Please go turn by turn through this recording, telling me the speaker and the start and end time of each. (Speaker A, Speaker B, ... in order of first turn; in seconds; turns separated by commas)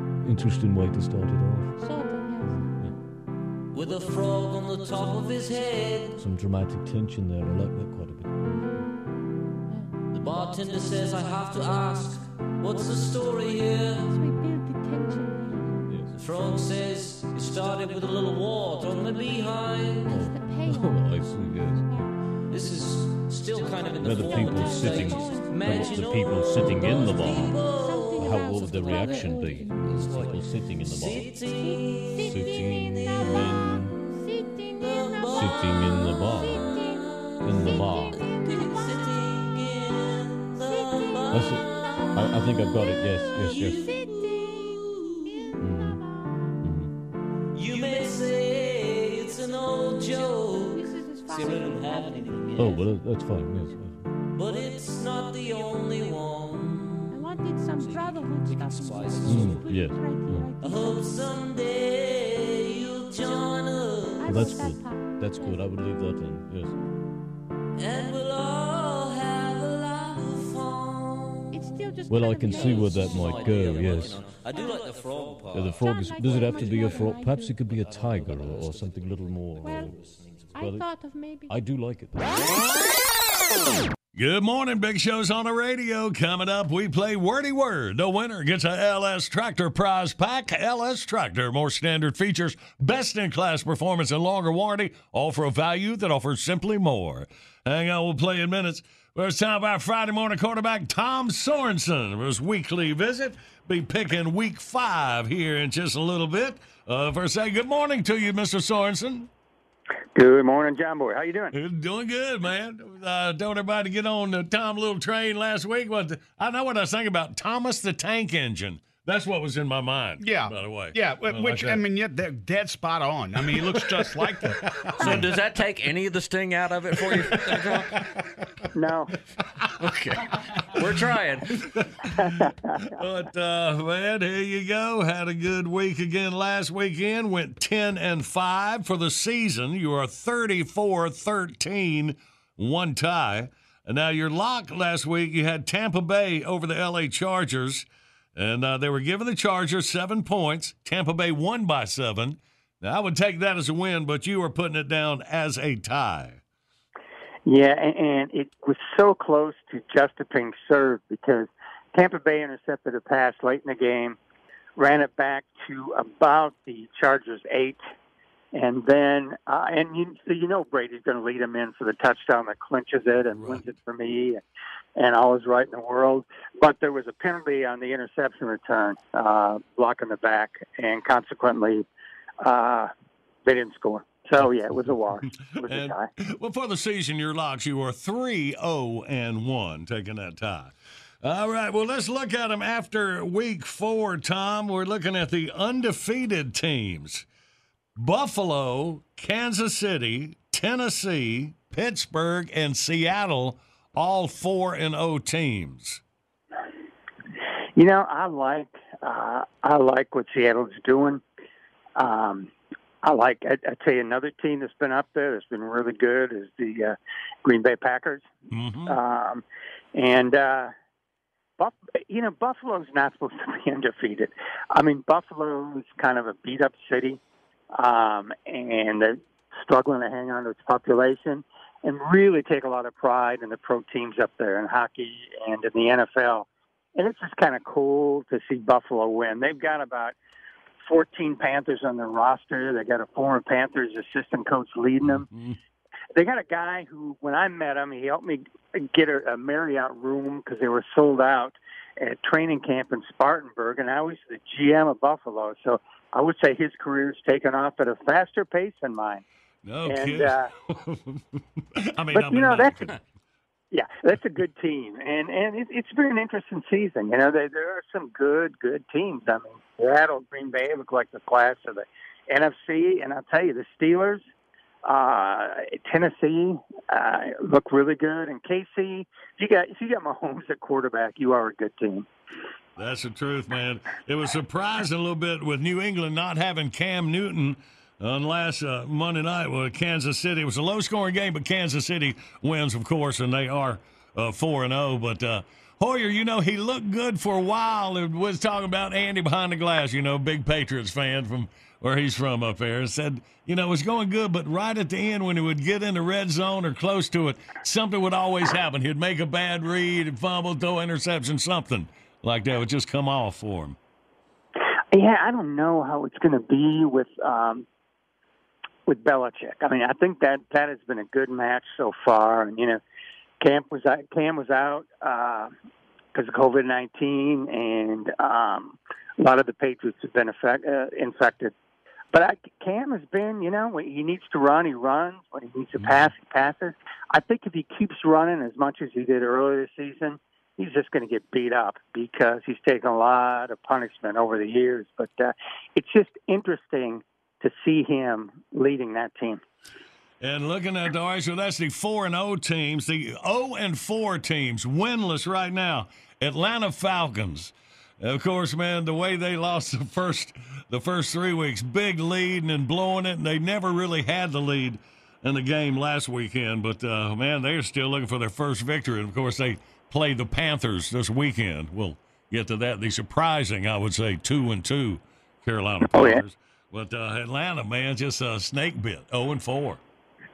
Speaker A: 0.2-1.7, Speaker B: 1.8-3.0, Speaker C: 3.7-6.2, Speaker A: 6.2-8.6, Speaker B: 8.5-9.0, Speaker B: 9.7-10.0, Speaker C: 10.1-14.2, Speaker B: 14.1-16.0, Speaker A: 15.9-16.2, Speaker C: 16.1-20.1, Speaker A: 20.1-21.9, Speaker B: 20.1-22.2, Speaker C: 22.5-28.4, Speaker A: 24.0-27.6, Speaker B: 24.1-33.4, Speaker A: 28.2-31.3, Speaker C: 30.9-32.3, Speaker A: 32.2-34.0, Speaker C: 32.9-33.3, Speaker B: 34.1-39.1, Speaker C: 34.7-35.9, Speaker A: 35.4-36.6, Speaker C: 36.5-37.5, Speaker A: 37.4-38.2, Speaker C: 38.1-42.2, Speaker B: 40.6-46.5, Speaker A: 41.3-43.9, Speaker C: 43.5-45.2, Speaker A: 45.6-46.0, Speaker A: 46.6-46.9, Speaker C: 47.5-52.8, Speaker B: 50.8-53.9, Speaker A: 52.6-54.1, Speaker C: 54.4-57.2, Speaker B: 57.1-61.1, Speaker C: 58.6-59.2, Speaker A: 59.2-60.5, Speaker C: 60.6-64.4, Speaker B: 64.2-65.9, Speaker A: 64.2-66.8, Speaker B: 66.6-67.0, Speaker C: 67.8-71.6, Speaker B: 71.5-74.0, Speaker A: 72.1-74.3, Speaker C: 72.5-75.6, Speaker D: 72.5-74.2, Speaker B: 74.5-74.8, Speaker D: 74.8-75.7, Speaker A: 75.5-80.9, Speaker B: 75.7-77.9, Speaker B: 79.6-80.0, Speaker B: 80.5-81.6, Speaker A: 81.5-82.6, Speaker E: 84.2-109.3, Speaker F: 110.2-111.6, Speaker E: 111.5-121.8, Speaker G: 120.2-124.6, Speaker E: 123.5-124.2, Speaker E: 125.0-125.3, Speaker D: 125.0-127.9, Speaker F: 128.8-129.1, Speaker D: 129.8-131.5, Speaker F: 132.3-132.8, Speaker E: 133.0-156.4, Speaker F: 157.5-164.2, Speaker F: 164.8-167.8, Speaker F: 168.5-174.4, Speaker E: 173.3-173.6, Speaker F: 175.0-181.9, Speaker F: 182.4-182.9, Speaker F: 183.5-186.1, Speaker E: 185.7-197.3, Speaker E: 198.0-206.0, Speaker F: 207.8-211.2, Speaker F: 212.0-212.5, Speaker F: 213.0-218.3, Speaker E: 218.5-219.0, Speaker F: 218.9-219.4, Speaker F: 219.9-220.7, Speaker F: 221.6-227.2, Speaker F: 227.8-240.2, Speaker F: 240.9-245.3, Speaker E: 245.0-245.6, Speaker F: 246.2-259.2, Speaker E: 259.6-261.2, Speaker F: 259.9-260.5, Speaker E: 262.0-262.9, Speaker F: 262.1-262.9, Speaker F: 263.7-274.2, Speaker F: 274.9-282.1, Speaker E: 282.8-313.8, Speaker F: 314.9-317.6, Speaker F: 318.9-322.8, Speaker F: 323.4-325.5, Speaker F: 326.1-331.5, Speaker F: 332.1-349.4, Speaker E: 350.2-379.8, Speaker F: 375.9-376.2